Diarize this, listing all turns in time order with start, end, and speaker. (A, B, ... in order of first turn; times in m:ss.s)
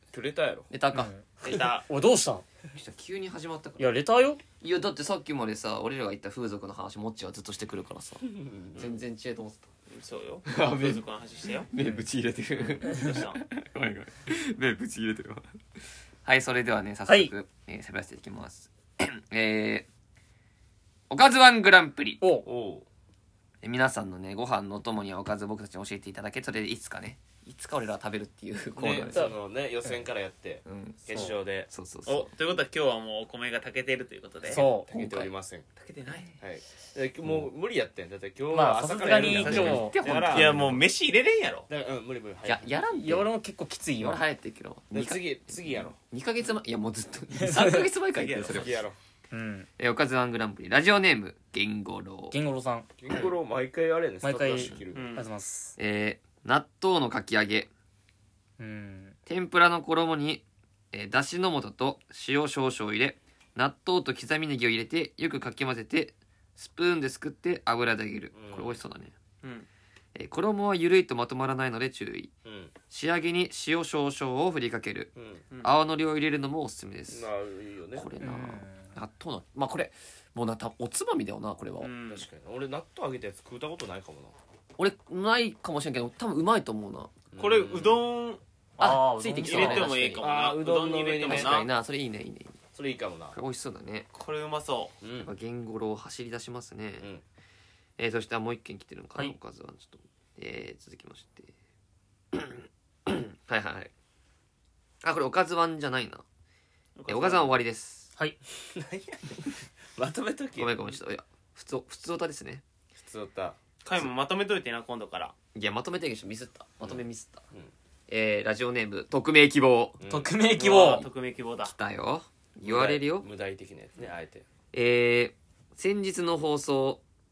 0:00.1-0:00.7 A
0:00.7-0:01.1 B
0:00.9-0:02.4 C
0:01.4-0:01.9 D
0:02.7-0:04.0 B
0:03.8-0:04.4 C
0:04.6-0:09.7 B
0:08.2-0:08.8 A
0:08.8-0:09.0 D
0:09.9-0:11.7 D
0:10.4-0:11.0 B
0:11.7-0:15.4 B
0:12.8-0:13.4 D
0:16.2-0:19.9 B
0:21.1-0:22.2 B
0:22.2-0:22.5 C
0:22.4-0:22.8 A
0:23.6-0:29.3 B
0:28.8-0:31.7 A
0:30.6-0:32.3 B
0:32.0-0:34.6 D
0:34.4-0:35.3 B
0:34.5-0:34.9 C
0:34.6-0:35.7 A
0:35.8-0:36.3 D
0:36.4-0:39.9 A
0:38.5-0:40.6 C
0:39.1-0:40.8 B
0:39.6-0:41.7 D
0:41.7-0:42.7 A
0:42.4-0:43.3 B
0:42.9-0:44.2 C
0:43.9-0:48.8 B
0:44.9-0:46.0 A
0:47.3-0:47.9 C
0:48.1-0:48.7 D
0:48.5-0:49.0 A
0:49.3-0:49.7 C
0:49.8-0:52.4 B
0:52.3-0:52.9 C
0:53.0-0:55.2 A
0:54.2-0:55.8 C
0:54.9-0:55.3 D
0:55.8-0:57.7 B
0:58.6-0:59.2 C
0:59.2-1:09.1 B
1:08.3-1:08.8 A
1:10.1-1:12.3 B
1:12.4-1:12.7 A
1:12.9-1:15.1 B
1:15.1-1:15.4 A
1:15.6-1:17.3 B
1:17.1-1:18.1 A
1:17.9-1:21.9 B
1:18.2-1:19.0 C
1:21.8-1:22.2 D
1:22.1-1:24.4 A
1:24.8-1:27.1 B
1:27.3-1:28.0 A
1:27.4-1:28.4 D
1:28.8-1:30.0 C
1:28.8-1:30.2 B
1:29.4-1:31.7 D
1:30.2-1:31.7 A
1:31.2-1:32.6 B
1:32.7-1:33.4 A
1:33.3-1:34.1 B
1:34.1-1:34.9 D
1:35.0-1:35.3 A
1:35.2-1:37.1 B
1:38.0-1:41.5 B
1:42.3-1:43.9 B
1:45.0-1:46.2 B
1:47.0-1:47.6 D
1:47.1-1:48.1 B
1:48.5-1:50.9 A
1:50.6-1:52.6 B
1:53.0-1:53.6 A
1:53.8-1:55.3 D
1:55.5-1:57.4 B
1:56.8-1:57.7 A
1:58.1-2:00.0 B
2:00.0-2:00.4 A
2:00.1-2:01.0 C
2:00.5-2:01.7 D
2:01.7-2:03.3 B
2:02.6-2:04.4 A
2:04.7-2:07.0 B